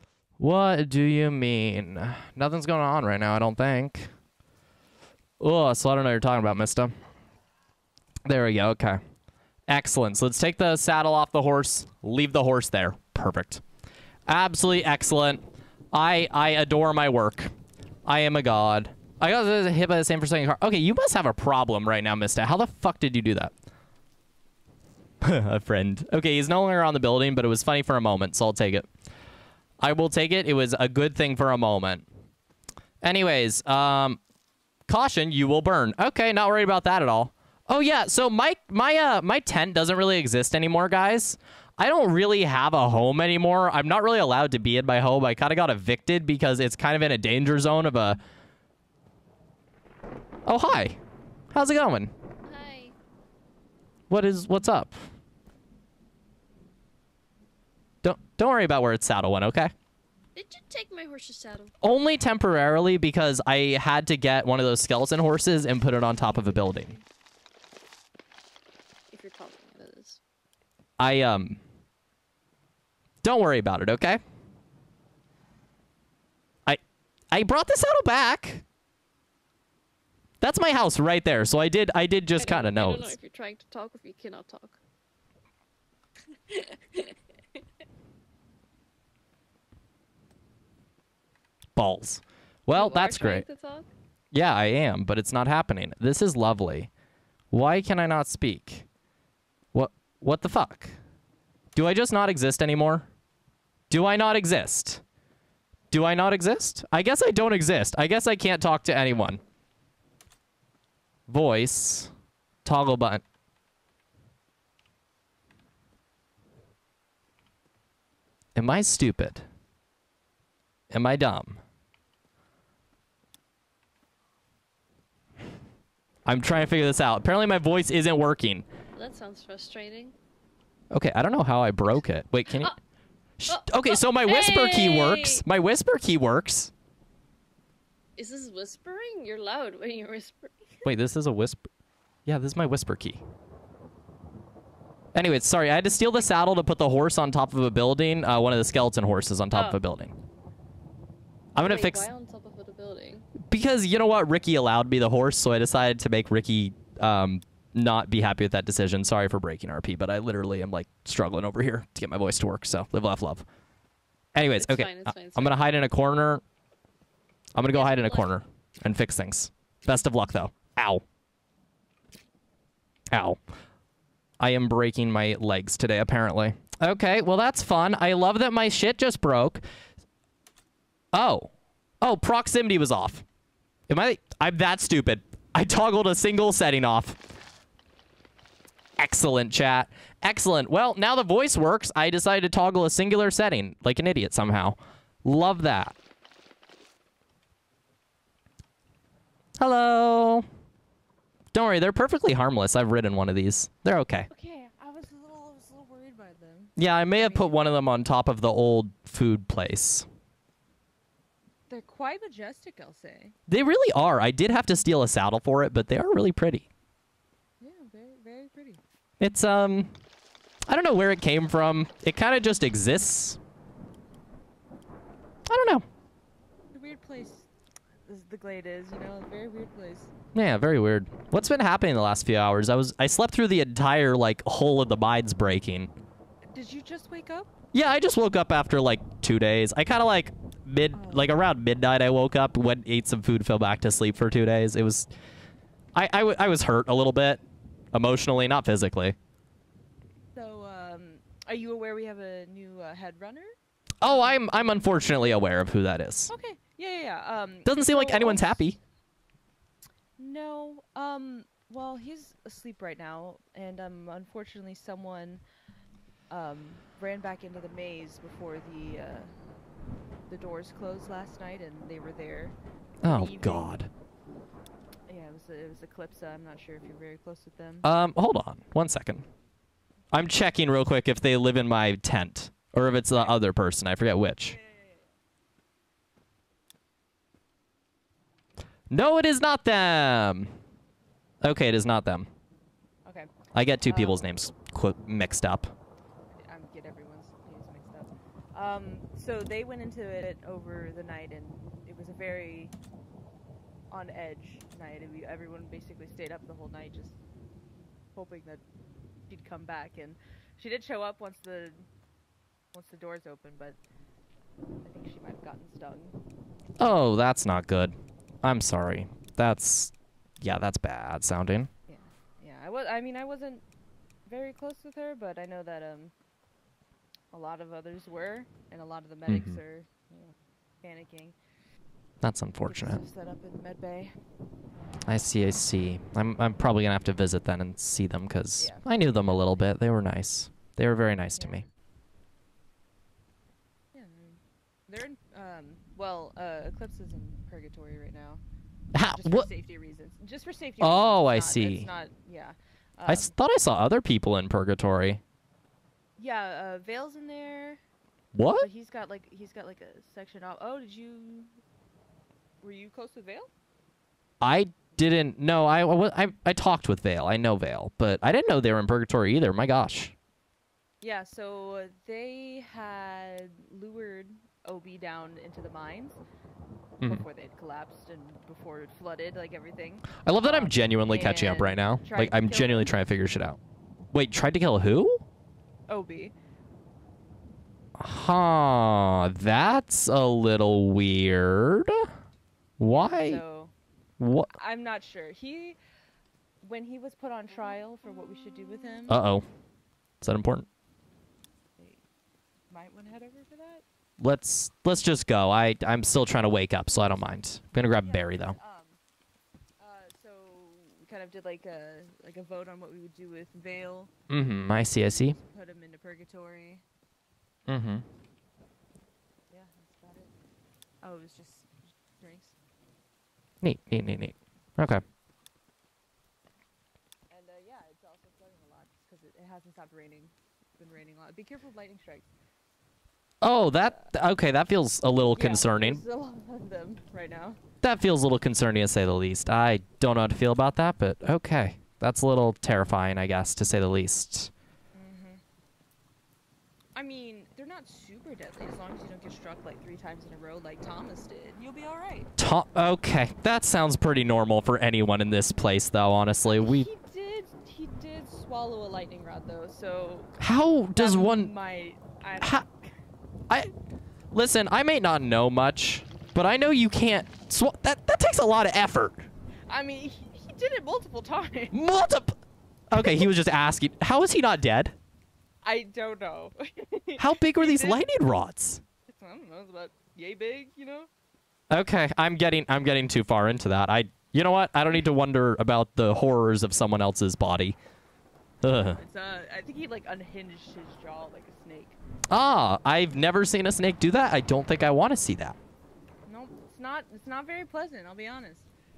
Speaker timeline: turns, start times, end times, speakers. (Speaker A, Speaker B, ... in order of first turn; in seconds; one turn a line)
Speaker A: 0.4-4.1
Speaker A: 5.4-6.9
Speaker A: 8.2-9.0
Speaker A: 9.7-13.6
Speaker A: 14.3-15.4
Speaker A: 15.9-17.5
Speaker A: 18.1-23.5
Speaker A: 25.2-28.9
Speaker A: 29.8-32.0
Speaker A: 33.0-34.2
Speaker A: 34.9-48.2
Speaker A: 50.5-51.0
Speaker A: 51.5-52.1
Speaker B: 52.5-52.9
Speaker A: 54.1-55.0
Speaker A: 58.0-59.7
Speaker B: 60.3-61.7
Speaker A: 61.8-66.9
Speaker B: 66.2-67.0
Speaker B: 69.1-70.2
Speaker A: 71.0-71.6
Speaker A: 73.2-74.2
Speaker A: 77.3-78.6
Speaker A: 80.4-83.1
Speaker B: 82.3-84.8
Speaker B: 86.5-87.1
Speaker A: 91.8-93.4
Speaker B: 92.7-93.9
Speaker A: 94.3-96.9
Speaker A: 97.5-98.8
Speaker A: 99.7-101.0
Speaker A: 101.7-103.1
Speaker A: 103.9-105.0
Speaker A: 105.9-109.4
Speaker A: 111.3-112.1
Speaker A: 112.6-113.2
Speaker A: 118.5-119.5
Speaker A: 120.9-121.6
Speaker A: 126.2-128.7
Speaker B: 128.9-130.1
Speaker A: 130.9-132.7
Speaker A: 133.4-136.7
Speaker B: 133.5-135.4
Speaker B: 138.2-140.8
Speaker A: 140.8-141.6
Speaker A: 142.2-143.2
Speaker A: 145.1-150.1
Speaker B: 149.5-149.8
Speaker A: 151.6-152.1
Speaker B: 151.6-153.3
Speaker A: 153.4-163.4
Speaker A: 164.3-166.4
Speaker B: 164.4-165.7
Speaker A: 167.5-171.0
Speaker B: 167.7-168.4
Speaker A: 173.1-173.4
Speaker A: 174.4-179.6
Speaker A: 181.1-181.5
Speaker A: 182.0-183.2
Speaker A: 183.9-187.2
Speaker A: 189.0-195.9
Speaker A: 199.6-200.4
Speaker A: 201.5-204.3
Speaker C: 204.3-207.6
Speaker A: 206.8-210.1
Speaker C: 211.7-213.3
Speaker A: 213.5-216.7
Speaker C: 217.6-218.8
Speaker A: 219.2-219.9
Speaker A: 220.7-223.4
Speaker A: 225.5-225.8
Speaker C: 226.7-227.5
Speaker C: 228.0-230.1
Speaker A: 230.3-235.9
Speaker C: 236.5-237.5
Speaker A: 237.7-245.1
Speaker C: 240.9-241.3
Speaker A: 245.9-247.4
Speaker A: 247.9-249.2
Speaker C: 250.3-254.4
Speaker A: 254.0-256.3
Speaker C: 256.3-258.6
Speaker A: 257.6-258.8
Speaker C: 260.2-265.4
Speaker C: 266.3-269.3
Speaker C: 270.3-273.7
Speaker A: 273.0-273.9
Speaker C: 275.1-277.9
Speaker A: 277.8-279.2
Speaker A: 280.1-284.6
Speaker C: 284.5-285.1
Speaker A: 288.9-290.5
Speaker A: 291.4-292.3
Speaker C: 293.0-294.2
Speaker A: 293.5-295.7
Speaker C: 296.3-302.7
Speaker C: 303.9-307.2
Speaker C: 308.1-308.6
Speaker C: 309.3-311.9
Speaker C: 312.7-313.8
Speaker C: 314.8-316.2
Speaker A: 316.8-321.7
Speaker C: 321.9-323.6
Speaker C: 324.2-326.1
Speaker C: 327.3-331.4
Speaker A: 329.3-329.6
Speaker A: 332.2-333.0
Speaker C: 332.6-334.1
Speaker A: 335.1-341.6
Speaker C: 338.6-338.8
Speaker C: 341.4-341.7
Speaker C: 343.9-348.4
Speaker A: 348.9-349.5
Speaker C: 349.0-353.3
Speaker A: 350.8-351.9
Speaker A: 353.1-355.2
Speaker C: 356.2-357.8
Speaker A: 358.3-358.7
Speaker C: 358.6-361.5
Speaker C: 362.6-363.5
Speaker A: 364.4-370.1
Speaker C: 371.0-376.2
Speaker C: 377.0-382.9
Speaker A: 380.2-383.6
Speaker A: 384.1-385.2
Speaker C: 385.9-386.3
Speaker A: 388.0-392.1
Speaker A: 392.8-393.4
Speaker C: 392.8-393.7
Speaker A: 394.2-394.5
Speaker C: 394.5-395.8
Speaker C: 396.6-399.2
Speaker A: 399.1-399.4
Speaker A: 400.2-400.7
Speaker C: 401.8-402.0
Speaker C: 402.7-403.8
Speaker A: 404.2-408.6
Speaker C: 406.9-407.2
Speaker C: 407.9-409.0
Speaker C: 409.8-414.1
Speaker A: 414.3-415.4
Speaker C: 415.0-416.8
Speaker A: 417.7-418.0
Speaker C: 419.5-420.3
Speaker C: 421.0-422.6
Speaker A: 423.6-425.0
Speaker C: 427.3-432.3
Speaker A: 433.4-436.0
Speaker C: 433.8-434.1
Speaker C: 435.3-437.6
Speaker A: 437.8-444.5
Speaker C: 444.9-445.4
Speaker C: 446.9-452.3
Speaker A: 452.4-456.9
Speaker C: 456.5-460.3
Speaker A: 460.4-461.5
Speaker C: 460.9-462.8
Speaker A: 462.4-462.6
Speaker A: 464.3-469.2
Speaker C: 469.7-471.7
Speaker A: 471.7-472.4
Speaker A: 472.9-474.9
Speaker C: 472.9-473.3
Speaker C: 475.6-478.0
Speaker A: 477.2-478.8
Speaker C: 479.1-481.1
Speaker A: 481.7-487.8
Speaker A: 488.6-489.0
Speaker C: 488.9-492.0
Speaker A: 492.3-495.6
Speaker C: 496.2-498.7